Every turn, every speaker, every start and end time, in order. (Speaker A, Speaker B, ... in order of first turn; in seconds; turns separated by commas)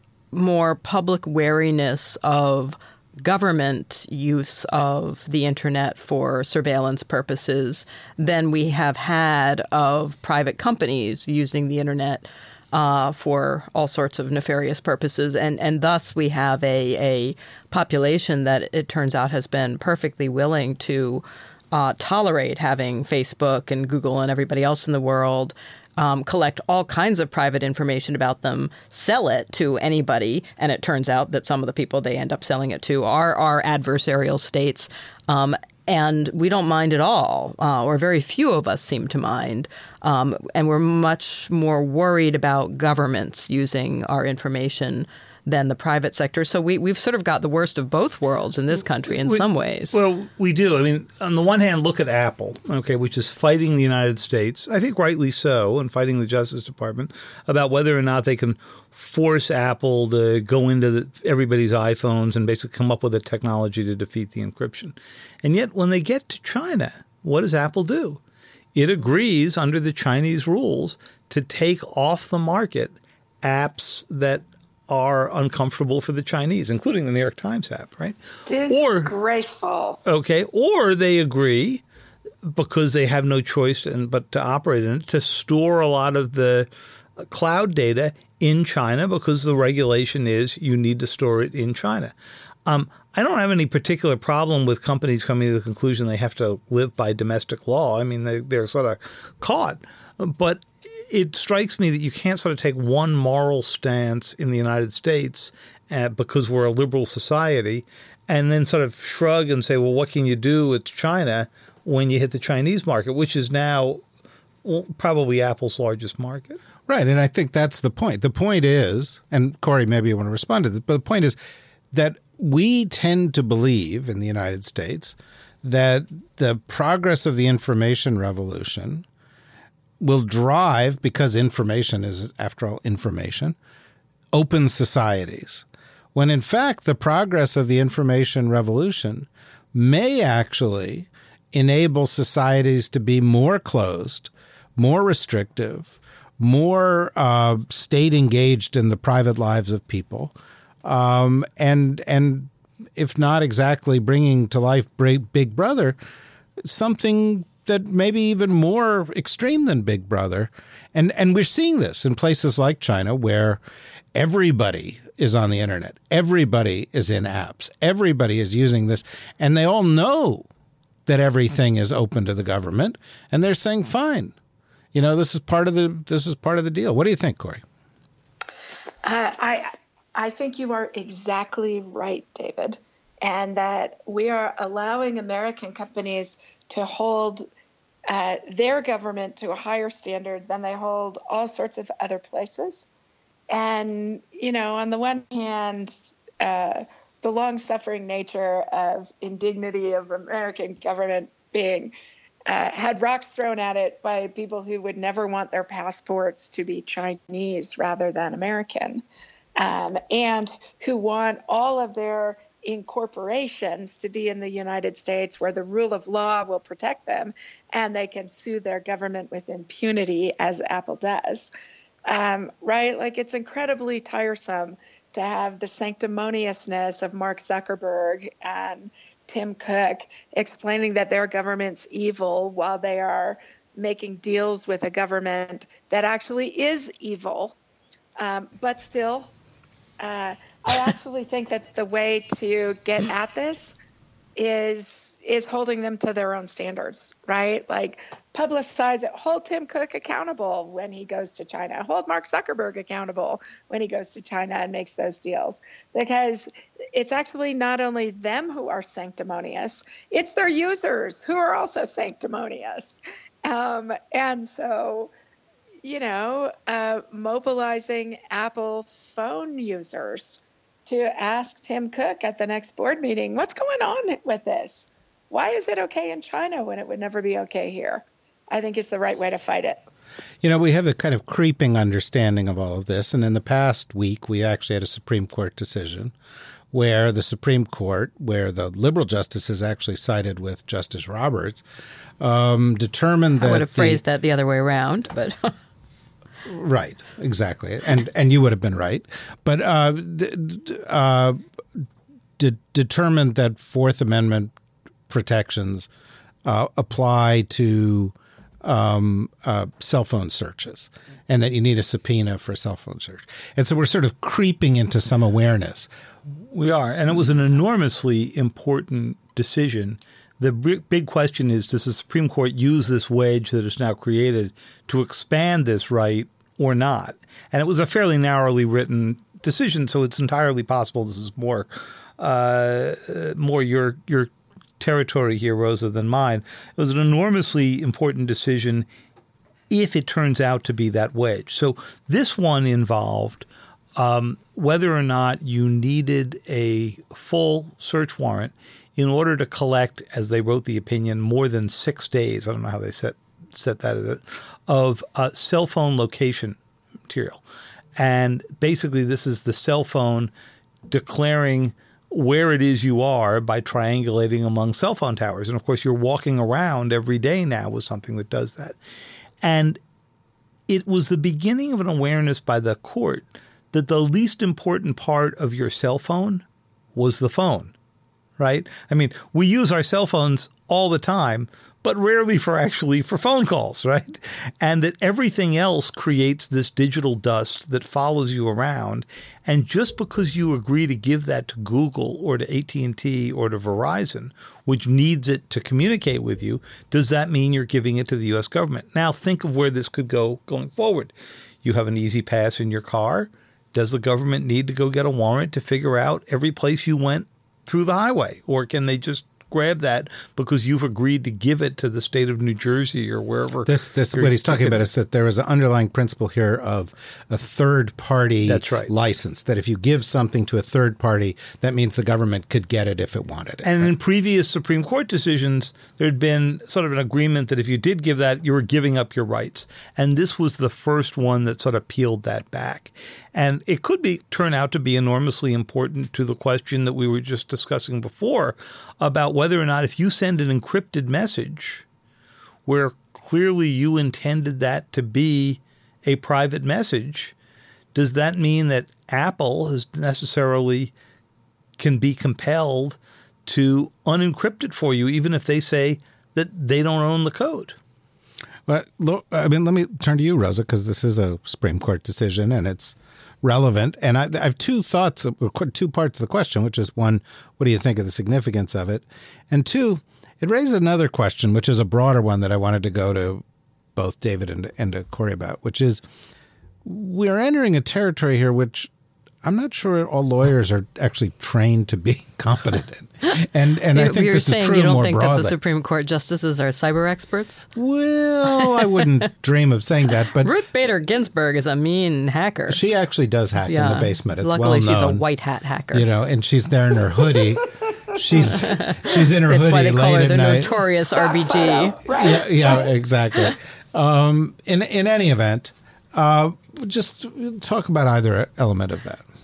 Speaker A: 0.3-50.0, Speaker B: 49.1-68.2, Speaker B: 68.8-78.2, Speaker C: 78.5-80.0, Speaker B: 78.7-79.1, Speaker B: 80.1-81.8, Speaker B: 82.4-92.1, Speaker B: 92.7-114.0, Speaker B: 114.6-116.6, Speaker D: 116.9-121.4, Speaker D: 121.9-129.1, Speaker D: 130.0-133.6, Speaker D: 134.3-156.0, Speaker D: 156.6-163.6, Speaker D: 164.1-170.5, Speaker D: 171.1-174.3, Speaker D: 174.9-177.6, Speaker C: 179.0-187.4, Speaker C: 188.1-192.9, Speaker C: 193.5-201.9, Speaker C: 202.5-209.0, Speaker C: 209.6-221.5, Speaker C: 222.1-237.6, Speaker C: 238.2-239.3, Speaker C: 240.0-243.8, Speaker C: 244.4-265.1, Speaker C: 265.8-279.8, Speaker D: 280.4-286.1, Speaker D: 286.7-291.6, Speaker D: 292.2-294.0, Speaker A: 293.4-295.6, Speaker D: 296.4-301.8, Speaker D: 302.4-304.5, Speaker D: 305.1-305.9, Speaker D: 306.4-315.9, Speaker B: 316.4-338.9, Speaker B: 339.7-357.4, Speaker B: 358.0-360.3, Speaker B: 360.9-368.8, Speaker B: 369.4-369.8, Speaker B: 370.7-377.7, Speaker B: 378.4-401.1, Speaker B: 401.6-414.8, Speaker D: 413.7-423.9, Speaker B: 418.5-418.9, Speaker B: 423.6-441.9, Speaker B: 442.7-447.3, Speaker B: 447.9-450.9, Speaker B: 451.8-457.8, Speaker D: 458.7-473.4, Speaker D: 474.0-476.0, Speaker D: 476.8-478.9, Speaker D: 479.4-485.6, Speaker A: 483.9-487.7, Speaker D: 487.8-490.5, Speaker A: 488.6-488.9, Speaker A: 490.4-492.8, Speaker D: 492.7-495.2, Speaker A: 493.7-496.1, Speaker D: 495.9-500.8, Speaker A: 498.5-502.0, Speaker C: 501.0-502.8, Speaker D: 502.1-509.2